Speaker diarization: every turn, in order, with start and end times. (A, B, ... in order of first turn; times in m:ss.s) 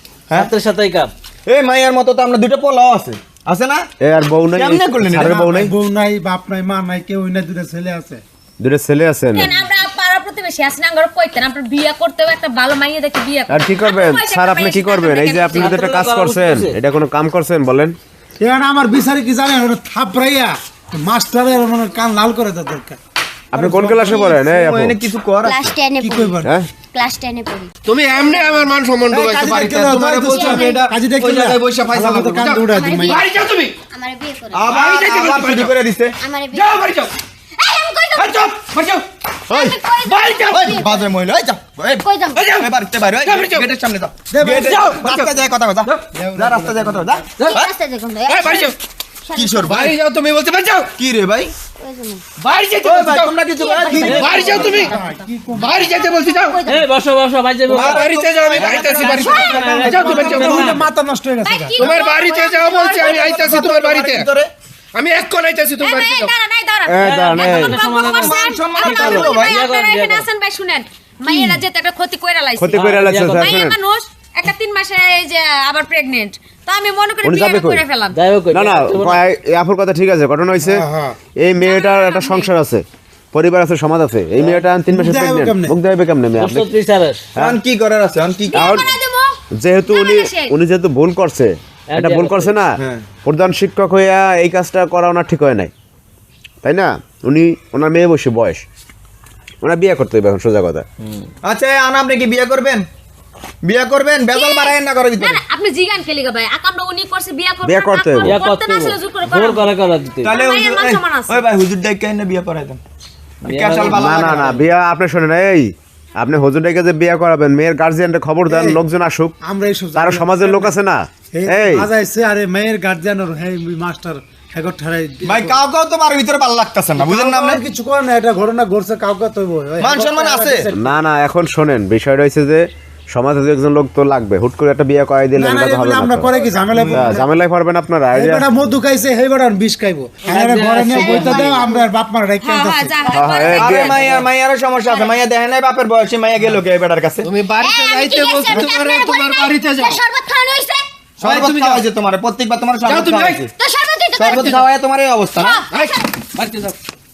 0:00.3-0:01.1 A
0:01.5-0:03.9 B
0:04.0-0:05.7 C
0:04.5-0:05.7 B
0:05.2-0:08.2 D
0:08.6-0:09.5 C
0:09.4-0:15.8 E
0:13.5-0:18.0 C
0:15.6-0:16.8 A
0:18.4-0:23.0 D
0:23.5-0:25.0 C
0:23.5-0:25.8 B
0:25.4-0:27.7 F
0:26.0-0:26.5 D
0:27.9-0:30.9 G
0:29.1-0:33.2 D
0:29.5-0:32.4 B
0:30.3-0:30.8 F
0:32.4-0:33.7 G
0:32.7-0:33.3 F
0:33.9-0:34.8 F
0:34.5-0:36.2 B
0:34.6-0:35.8 G
0:36.2-0:36.9 F
0:36.5-0:37.1 G
0:37.6-0:38.5 F
0:38.2-0:39.1 G
0:39.5-0:39.8 B
0:39.5-0:41.1 F
0:40.0-0:40.7 G
0:40.4-0:47.7 B
0:42.0-0:42.5 F
0:42.4-0:42.7 G
0:43.2-0:43.7 G
0:44.3-0:45.2 D
0:44.5-0:46.0 G
0:46.1-0:47.2 D
0:47.4-0:48.7 F
0:48.3-0:48.8 G
0:49.2-0:49.9 F
0:49.3-0:50.0 B
0:49.6-0:50.9 G
0:51.0-0:51.5 B
0:51.8-0:52.2 F
0:52.4-0:53.4 G
0:52.8-0:54.2 B
0:53.6-0:56.9 F
0:53.8-0:56.1 D
0:54.0-0:54.4 A
0:54.1-0:54.9 G
0:55.6-0:56.6 G
0:56.7-0:58.1 A
0:57.7-1:00.6 B
0:57.7-1:00.8 G
0:59.0-1:00.8 A
0:59.2-0:59.6 F
0:59.3-1:01.9 D
1:01.4-1:03.4 E
1:01.8-1:04.3 G
1:03.0-1:04.5 B
1:04.9-1:06.3 G
1:05.8-1:18.2 E
1:06.9-1:07.8 C
1:07.0-1:10.3 A
1:08.1-1:09.6 B
1:12.6-1:13.8 C
1:12.7-1:13.6 A
1:17.2-1:17.9 C
1:18.1-1:19.2 A
1:18.5-1:20.8 C
1:20.6-1:21.2 D
1:21.4-1:26.7 C
1:21.6-1:22.5 E
1:24.4-1:24.6 A
1:24.9-1:25.8 D
1:26.4-1:27.3 A
1:27.4-1:28.9 B
1:28.5-1:30.5 E
1:28.5-1:28.9 C
1:29.6-1:35.7 C
1:31.9-1:32.6 A
1:32.8-1:33.0 B
1:36.6-1:38.6 C
1:39.6-1:40.8 C
1:41.4-1:42.8 B
1:43.6-1:45.4 B
1:44.3-1:49.7 E
1:47.6-1:48.4 C
1:48.2-1:50.4 A
1:50.2-1:52.8 B
1:50.3-1:51.4 E
1:53.4-1:54.7 B
1:53.4-1:54.1 A
1:53.8-1:59.4 C
1:58.5-1:58.8 D
1:59.4-2:00.7 D
2:00.0-2:01.9 C
2:01.3-2:05.6 D
2:05.2-2:07.6 B
2:06.9-2:10.9 D
2:09.8-2:10.7 B
2:10.8-2:16.3 C
2:15.4-2:17.3 D
2:16.7-2:17.2 B
2:16.9-2:18.5 C
2:18.1-2:23.2 D
2:20.2-2:21.7 A
2:20.9-2:21.9 F
2:22.4-2:24.0 E
2:23.1-2:23.6 F
2:23.1-2:24.1 C
2:23.5-2:27.3 B
2:27.2-2:30.0 G
2:27.6-2:30.9 F
2:28.1-2:29.1 E
2:31.2-2:31.8 G
2:31.2-2:33.5 B
2:32.8-2:33.4 G
2:33.6-2:34.6 F
2:34.2-2:35.6 B
2:34.2-2:34.7 G
2:35.4-2:36.0 F
2:35.7-2:36.8 G